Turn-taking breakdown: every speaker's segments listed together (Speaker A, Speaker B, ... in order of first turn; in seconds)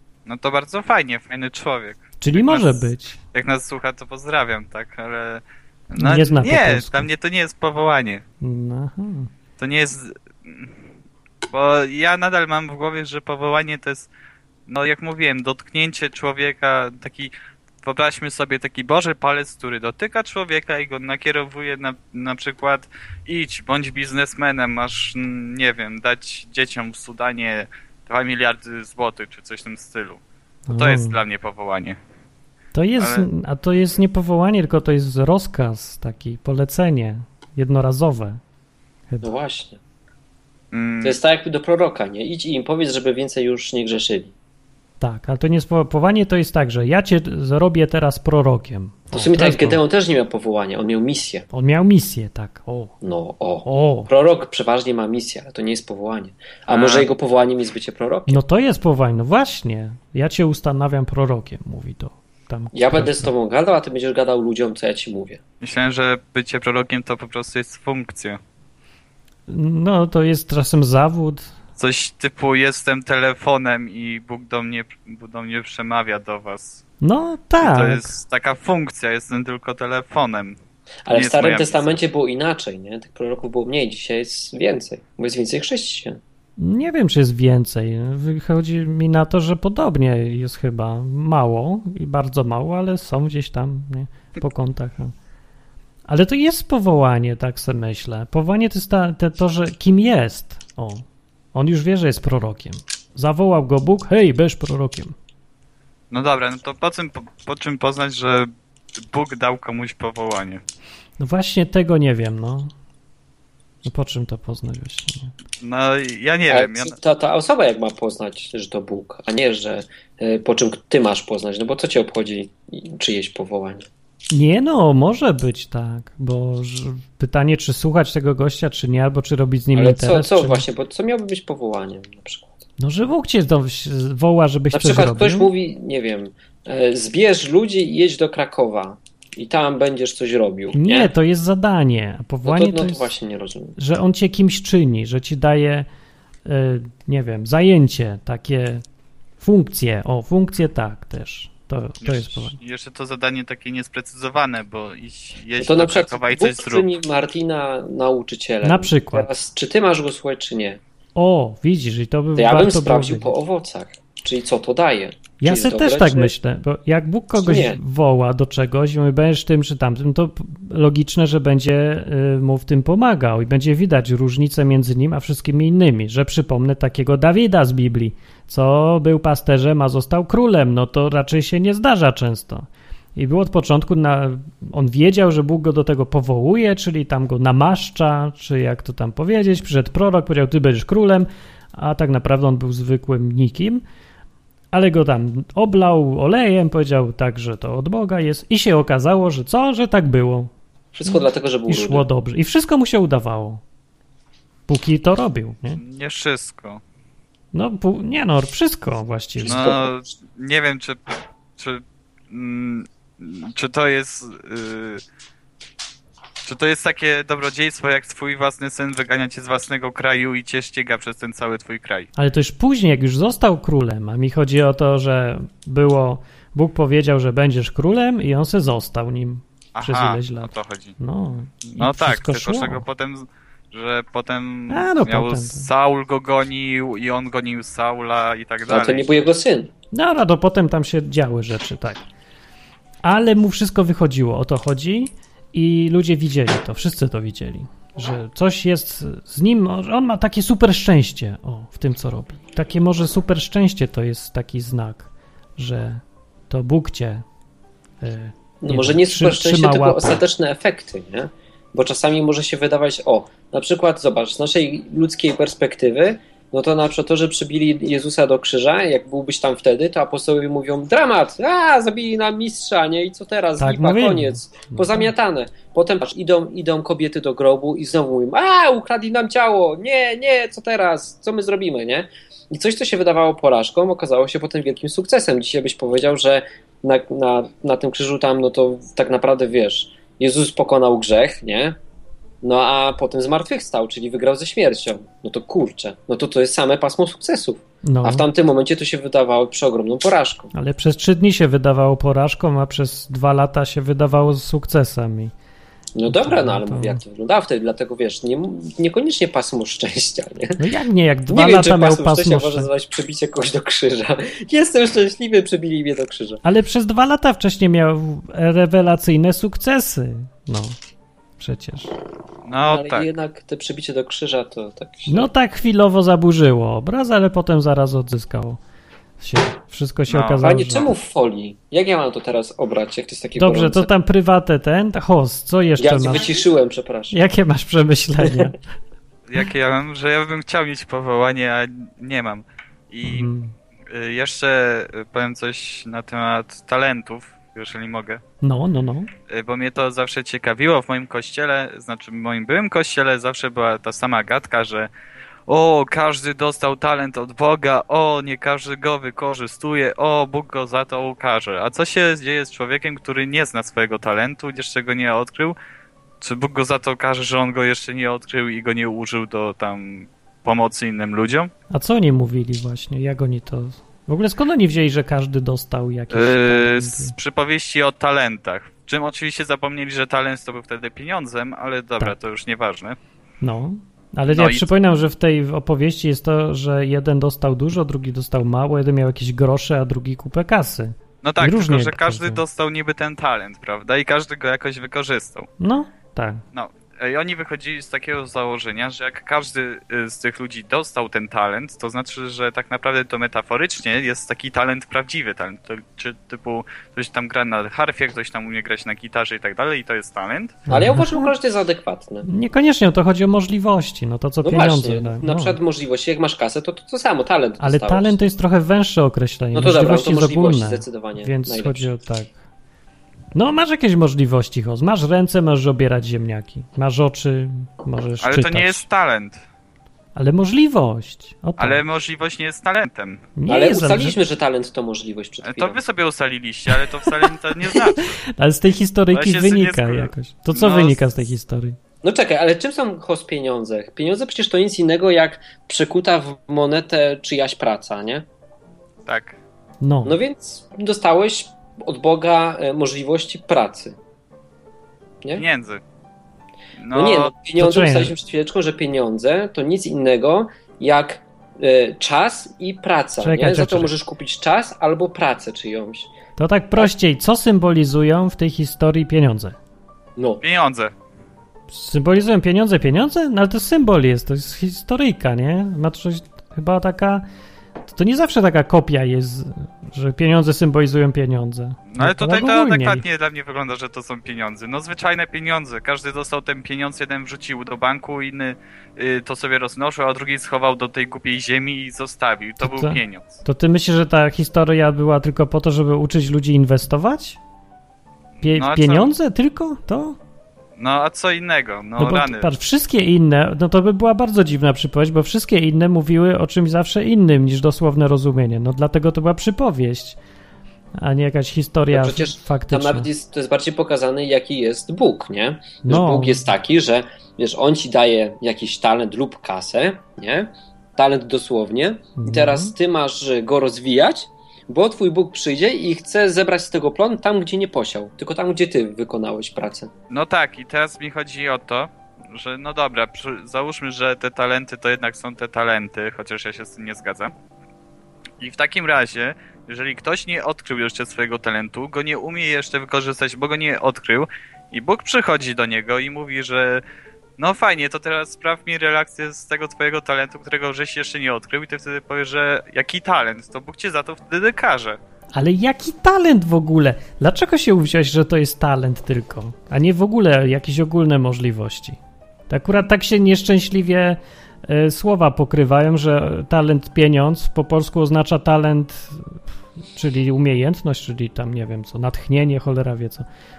Speaker A: 0.2-8.2, 9.6-10.8, 11.5-14.1, 14.7-32.0, 33.0-33.2, 40.7-41.2, 56.7-57.1, 65.6-68.4, 71.8-76.8, 77.6-80.6, 81.1-82.0, 106.1-108.5, 109.1-110.6, 115.6-117.0, 152.0-156.9, 205.8-206.8, 209.4-215.0, 216.4-222.1, 229.7-230.9, 231.7-239.2, 322.5-323.1, 330.1-330.4, 339.3-343.3, 343.9-348.2, 349.3-354.9, 355.5-365.6, 366.2-371.5, 376.1-383.0, 384.3-384.7, 391.2-395.5, 396.5-410.6, 428.2-429.4, 431.6-433.2, 435.4-438.1, 439.1-441.0, 449.1-449.4, 455.3-455.8, 456.8-457.3, 470.4-470.9, 481.9-493.3, 498.4-499.1, 500.8-502.5, 530.1-537.3, 538.4-546.8, 547.4-555.0
Speaker B: 2.2-3.2, 6.0-7.1, 8.4-9.3, 30.7-31.2, 32.7-38.4, 45.0-49.8, 51.5-52.9, 53.6-54.1, 58.3-63.3, 69.5-71.5, 77.0-78.1, 86.6-95.1, 96.1-105.1, 111.2-112.7, 113.8-115.3, 124.3-130.6, 132.8-135.5, 140.7-143.1, 143.8-145.9, 146.4-148.8, 149.4-152.6, 158.6-159.3, 161.2-163.3, 165.4-193.8, 194.7-200.5, 201.1-203.6, 204.7-205.8, 207.5-209.7, 222.2-232.8, 234.7-235.7, 239.9-242.0, 243.0-257.2, 258.0-260.2, 273.6-275.1, 297.8-298.2, 300.5-305.3, 306.1-307.0, 310.6-312.7, 316.4-320.8, 321.4-321.9, 325.1-328.6, 329.2-330.9, 333.4-336.3, 337.1-338.6, 343.0-343.5, 348.4-349.1, 371.7-377.1, 383.4-392.4, 395.6-396.4, 410.7-411.3, 412.2-415.6, 417.6-422.4, 423.3-428.8, 430.1-431.8, 433.4-434.2, 437.8-441.8, 449.8-450.2, 457.6-458.1, 463.2-463.9, 466.4-469.6, 471.7-477.2, 477.9-483.0, 492.6-497.4, 498.4-500.2, 502.0-510.2, 510.9-513.1, 515.8-516.4, 522.2-522.7, 555.3-562.0, 562.5-569.4, 569.9-573.2
Speaker C: 39.2-39.8, 41.0-44.3, 49.1-51.5, 53.0-58.4, 62.7-65.4, 81.0-86.2, 116.5-123.9, 129.7-132.5, 134.7-141.1, 142.4-143.8, 155.6-160.8, 162.4-166.3, 167.3-167.8, 200.9-202.0, 209.4-210.0, 238.7-239.7, 258.6-291.8, 292.4-300.5, 305.9-310.6, 311.3-316.4, 322.6-325.3, 330.4-333.9, 335.8-337.2, 410.7-412.3, 414.4-418.2, 419.5-421.9, 433.5-435.8, 442.0-448.2, 450.0-453.9, 456.9-466.1, 511.9-529.9